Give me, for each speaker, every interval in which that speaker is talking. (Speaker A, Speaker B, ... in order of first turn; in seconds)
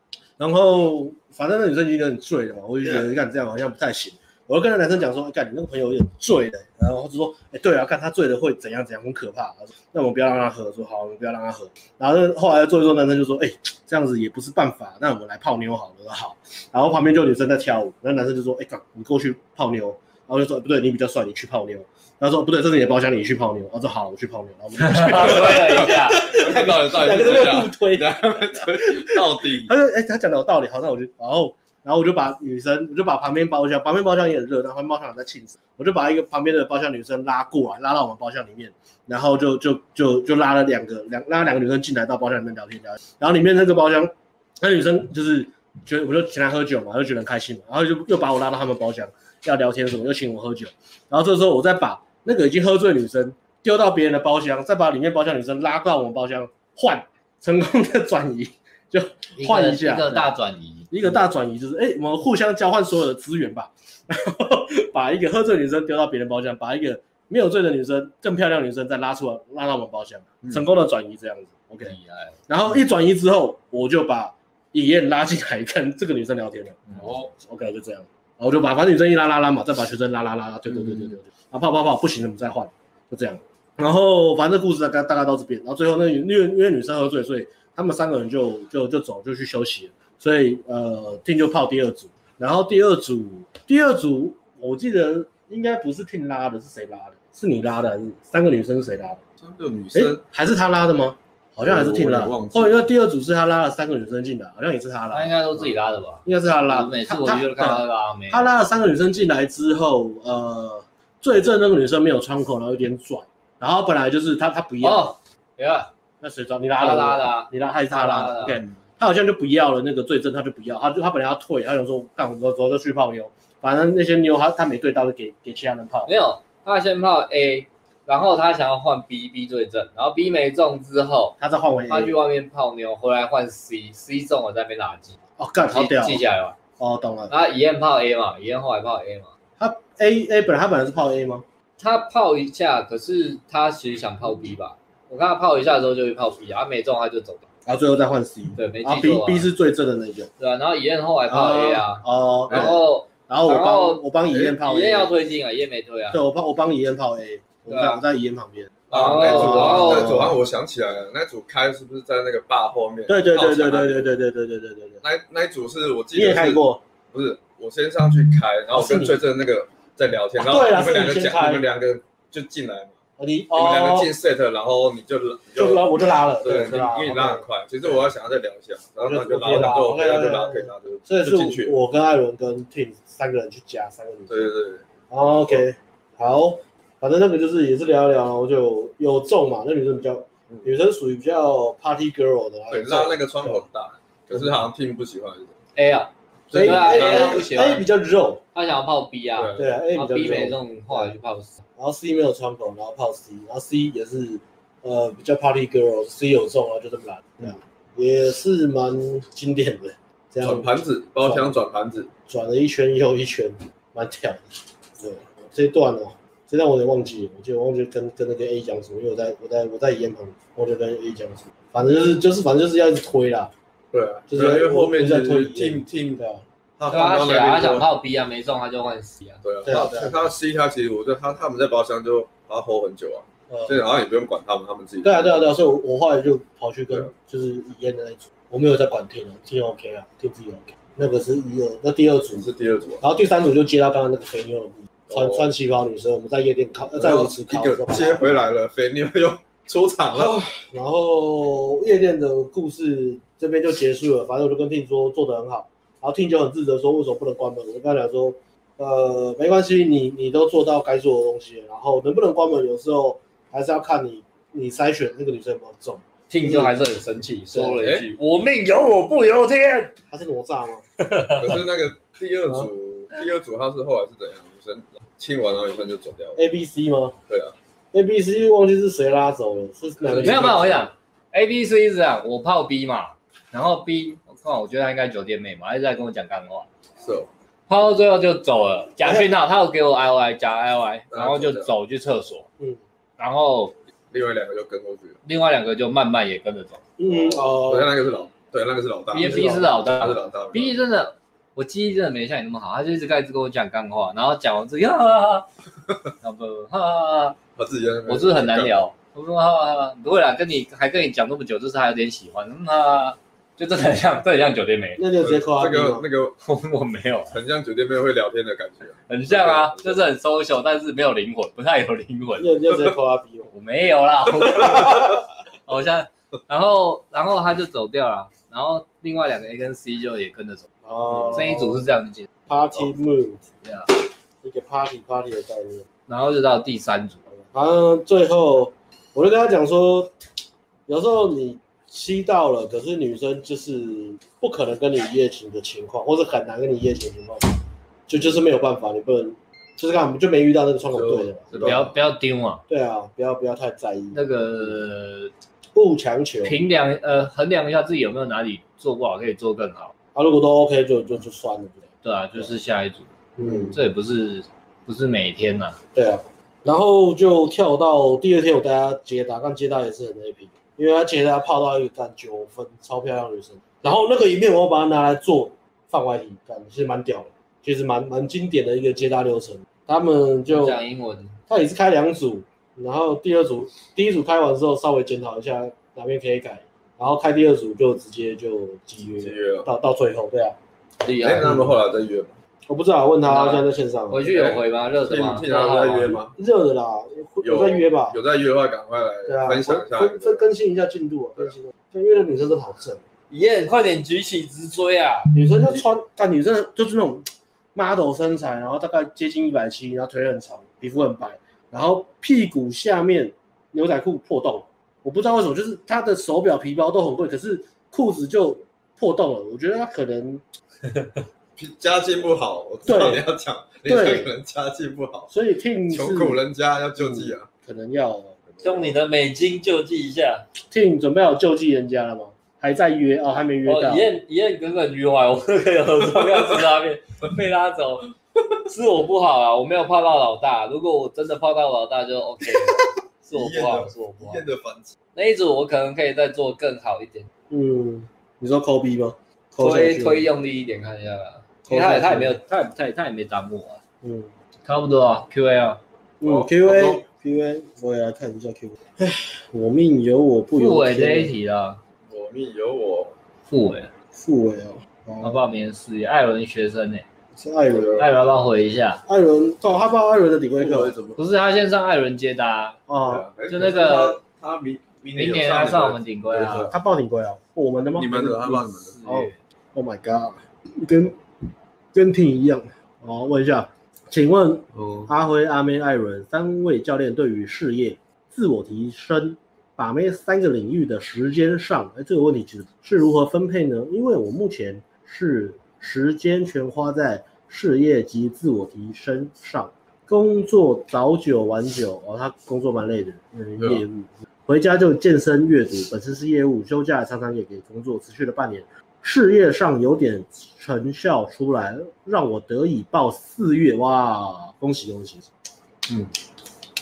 Speaker A: 0.4-60.3, 60.9-72.0, 72.5-99.2, 99.9-105.3, 106.2-115.1, 116.2-126.1, 131.4-132.2, 135.4-136.2, 136.8-137.3, 139.6-141.4, 147.7-150.3, 151.3-155.1, 156.1-160.4, 163.1-165.0, 166.2-166.8, 168.7-169.2, 170.4-171.7, 173.2-174.1, 175.6-177.4, 179.0-184.5, 185.1-193.6, 196.5-198.4, 199.6-201.2, 201.8-210.7, 211.2-211.6, 212.3-214.4, 215.0-223.5, 224.3-226.4, 229.7-230.3, 233.5-233.8, 235.0-242.5, 243.0-248.4, 250.1-266.7, 267.5-267.8, 270.1-270.9, 276.4-277.2, 277.9-280.9, 297.0-297.9, 299.2-299.7, 315.0-316.1, 322.4-323.5, 330.9-331.9, 332.5-333.4, 334.4-335.9, 337.5-340.1, 340.9-351.9, 352.7-354.2, 355.8-356.6, 360.1-362.5, 363.4-363.8, 365.9-380.8, 381.5-390.6, 391.4-391.7, 392.7-394.3, 396.3-398.2, 399.3-403.0, 405.3-420.4, 422.9-423.2, 423.9-424.3, 425.3-426.4, 427.0-428.4, 430.7-434.1, 447.5-450.3, 451.7-452.4, 454.0-454.3, 456.2-461.3, 464.1-465.4, 467.4-468.0, 469.1-471.0, 472.9-473.3, 476.7-481.2, 481.9-515.3
Speaker B: 24.8-26.2, 59.4-60.9, 71.9-72.4, 105.1-108.4, 114.8-115.9, 116.8-118.6, 126.1-131.4, 131.9-135.2, 135.7-136.6, 137.3-139.3, 141.8-147.5, 148.6-149.5, 150.4-156.2, 157.7-158.0, 158.9-160.2, 195.8-197.9, 198.6-201.6, 226.9-229.4, 266.3-269.9, 271.0-271.5, 280.2-286.7, 287.7-292.5, 293.2-293.7, 295.2-296.9, 299.1-305.5, 306.2-307.4, 308.1-315.0, 316.4-317.4, 319.1-322.7, 323.5-330.7, 331.3-332.3, 333.6-333.9, 336.1-337.2, 351.5-352.6, 354.1-355.3, 356.4-359.9, 362.0-365.8, 380.5-381.4, 391.0-391.6, 393.2-396.2, 403.3-405.4, 420.9-421.2, 428.6-430.4, 433.6-438.1, 438.7-444.4, 445.1-447.3, 449.6-453.8, 454.7-455.8, 460.6-461.8, 463.5-463.9, 465.2-467.1, 468.0-469.0, 471.2-472.8, 473.5-474.2, 475.1-476.7, 478.9-479.4
Speaker C: 25.4-29.7, 77.0-77.3, 99.4-100.2, 101.6-102.8, 152.5-152.8, 158.9-164.1, 165.0-173.0, 173.5-175.9, 176.4-181.8, 184.3-184.8, 192.7-195.5, 196.5-197.4, 199.4-199.7, 210.4-212.1, 223.9-226.2, 226.8-227.9, 229.4-235.5, 242.3-243.0, 245.1-245.5, 247.0-250.4, 267.8-268.1, 271.4-276.4, 277.3-277.6, 287.0-287.3, 291.1-291.7, 294.1-295.2, 297.1-300.8, 307.6-308.9, 315.2-316.4, 317.3-320.0, 350.9-351.9, 389.2-389.7, 391.2-392.4, 394.3-396.3, 397.4-400.5, 421.6-425.3, 425.9-427.5, 428.5-428.9, 443.3-445.0, 456.2-457.0, 462.1-463.1, 467.7-468.1, 470.6-471.2, 473.1-476.8, 477.9-479.0, 484.7-485.1